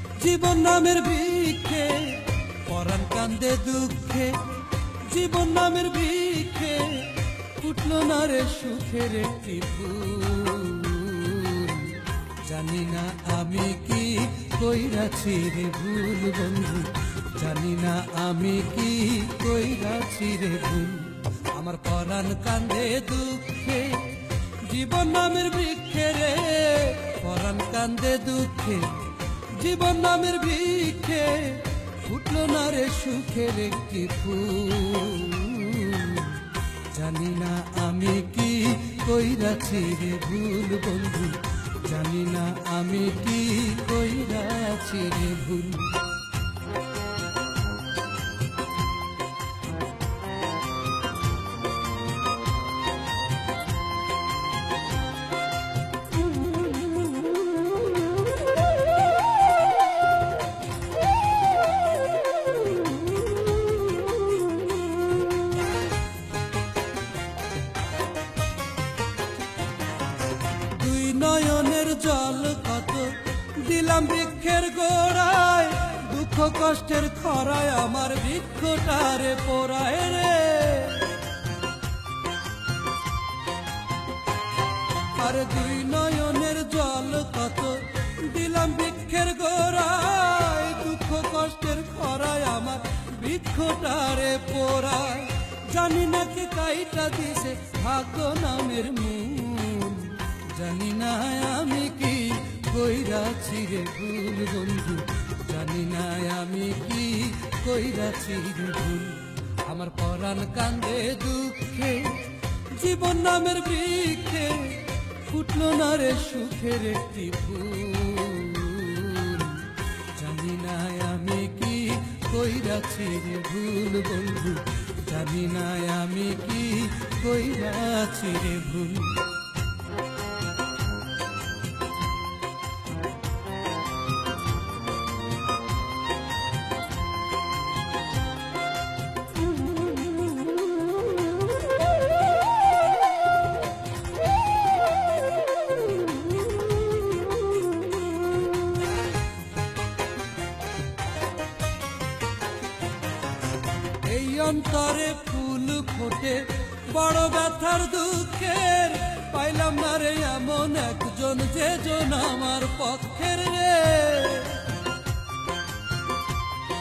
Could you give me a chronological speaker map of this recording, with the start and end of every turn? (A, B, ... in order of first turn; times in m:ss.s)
0:00.1-0:04.4 A
0:05.0-0:46.0 A
1:10.7-1:21.2 A
1:25.1-2:09.2 A
2:34.0-2:44.7 A